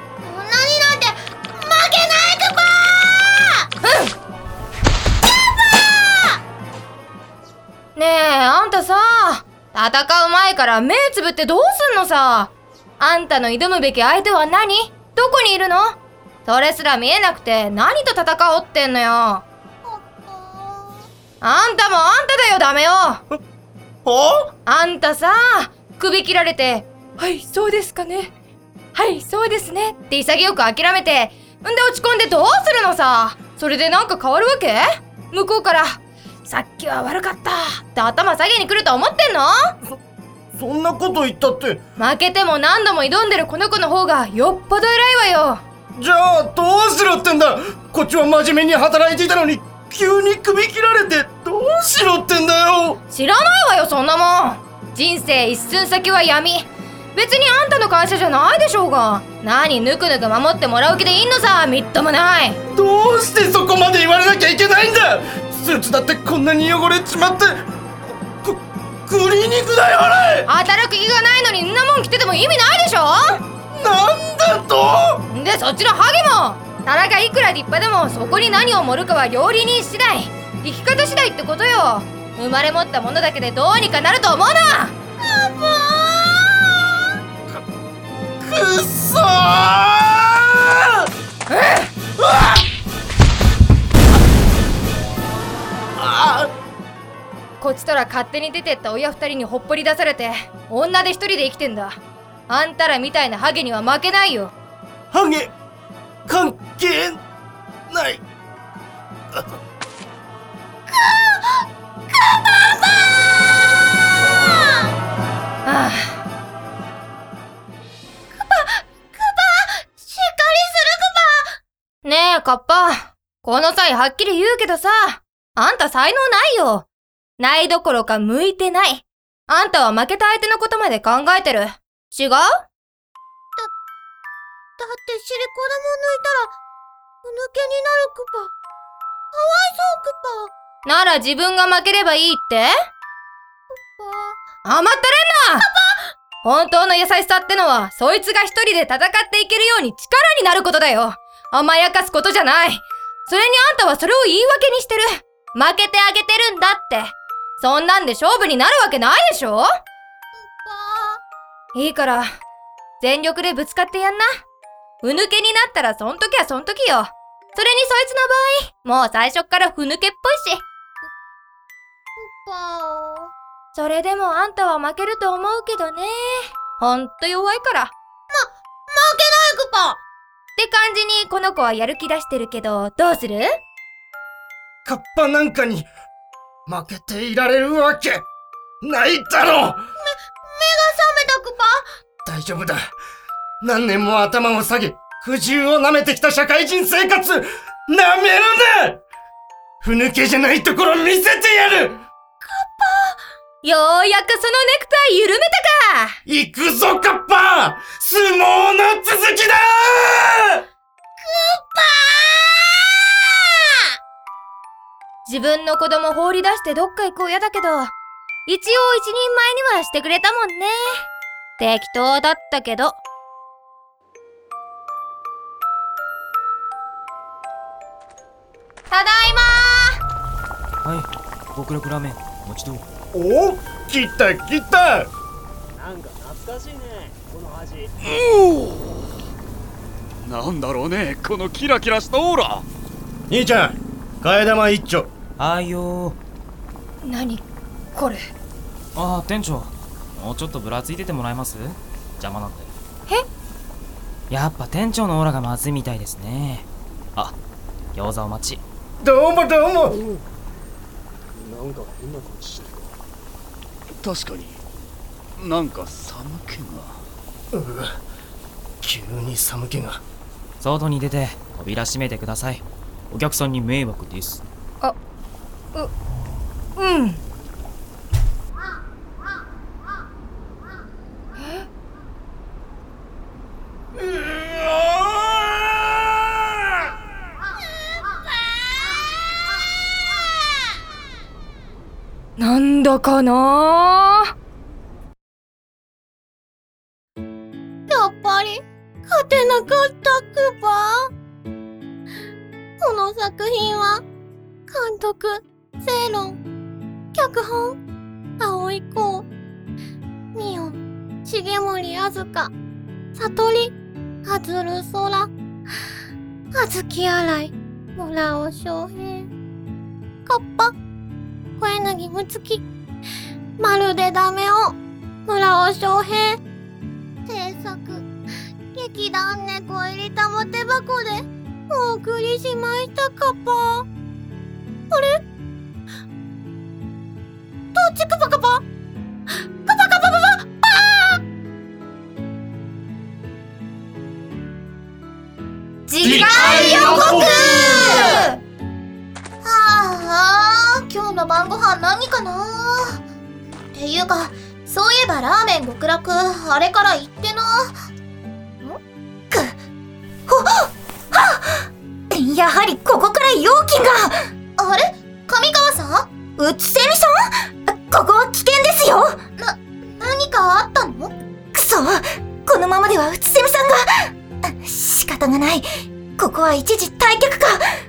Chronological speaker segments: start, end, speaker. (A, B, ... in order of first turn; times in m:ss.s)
0:00.2-0:03.7 A
0:03.8-0:04.1 B
0:05.6-0:06.4 A
0:07.9-0:19.4 B
0:19.8-0:21.1 A
0:21.4-0:23.2 B
0:24.0-0:24.5 C
0:24.7-0:28.3 B
0:28.9-0:39.7 B
0:40.5-0:41.8 C
0:42.0-0:45.6 B
0:46.0-0:53.0 C
0:53.1-1:02.6 B
1:02.7-1:07.7 C
1:08.4-1:10.5 C
1:10.5-1:13.4 B
1:13.7-1:15.2 C
1:15.3-1:25.0 B
1:25.2-1:26.5 A
1:28.4-1:31.0 C
1:31.5-1:31.9 B
1:32.2-1:32.6 C
1:36.0-1:36.5 C
1:37.6-1:42.0 B
1:42.5-1:44.5 B
1:45.1-1:45.5 C
1:46.3-1:47.2 C
1:47.9-1:48.2 C
1:50.9-1:54.9 A
1:55.6-1:56.2 B
1:58.3-2:01.6 A
2:02.0-2:06.9 B
2:07.4-2:12.6 B
2:14.8-2:16.5 A
2:17.2-2:18.5 A
2:19.3-2:20.5 A
2:20.8-2:22.7 B
2:23.7-2:24.4 A
2:24.6-2:25.6 B
2:25.6-2:26.1 A
2:26.4-2:39.7 B
2:40.4-2:41.2 A
2:41.7-2:42.3 B
2:43.0-2:44.3 B
2:45.0-2:50.6 B
2:52.2-2:53.3 A
2:53.7-2:57.9 B
2:58.3-3:00.0 A
3:00.6-3:03.5 B
3:04.8-3:05.9 C
3:06.7-3:08.2 C
3:08.8-3:09.8 C
3:10.0-3:11.8 A
3:12.2-3:12.9 C
3:13.6-3:19.0 C
3:19.8-3:22.0 C
3:22.4-3:23.2 A
3:23.6-3:26.2 B
3:26.2-3:30.6 C
3:31.2-3:33.9 A
3:35.2-3:37.9 B
3:38.4-3:43.0 B
3:48.9-3:50.0 B
3:50.8-3:52.8 D
3:53.1-3:55.1 C
3:55.8-3:57.9 E
3:58.1-3:58.7 F
4:00.2-4:02.6 F
4:03.3-4:05.1 C
4:05.4-4:06.2 D
4:07.0-4:08.2 B
4:08.9-4:12.7 D
4:14.3-4:17.3 D
4:17.9-4:18.6 D
4:19.0-4:20.0 C
4:21.4-4:22.8 E
4:24.0-4:24.6 F
4:25.4-4:27.0 F
4:27.5-4:28.0 C
4:28.8-4:30.0 C
4:30.6-4:34.4 D
4:36.8-4:37.2 B
4:41.4-4:41.7 B
4:44.0-4:45.6 C
4:52.4-4:54.3 B
4:57.9-5:01.1 A
5:02.8-5:04.0 A
5:04.7-5:06.4 A
5:07.1-5:07.8 A
5:08.4-5:09.3 A
5:10.3-5:12.5 A
5:13.2-5:15.3 A
5:16.5-5:19.3 A
5:20.3-5:20.7 A
5:21.6-5:22.6 A
5:23.6-5:26.4 A
5:27.3-5:28.1 A
5:28.7-5:33.9 A
5:34.9-5:35.2 A
5:37.7-5:38.6 A
5:39.6-5:41.2 A
5:45.9-5:48.4 B
5:46.0-5:48.1 C
5:46.0-5:48.3 A
5:49.4-5:53.0 A
5:53.7-5:57.8 A
5:59.3-5:59.6 A
6:00.3-6:15.6 A
6:16.2-6:17.6 A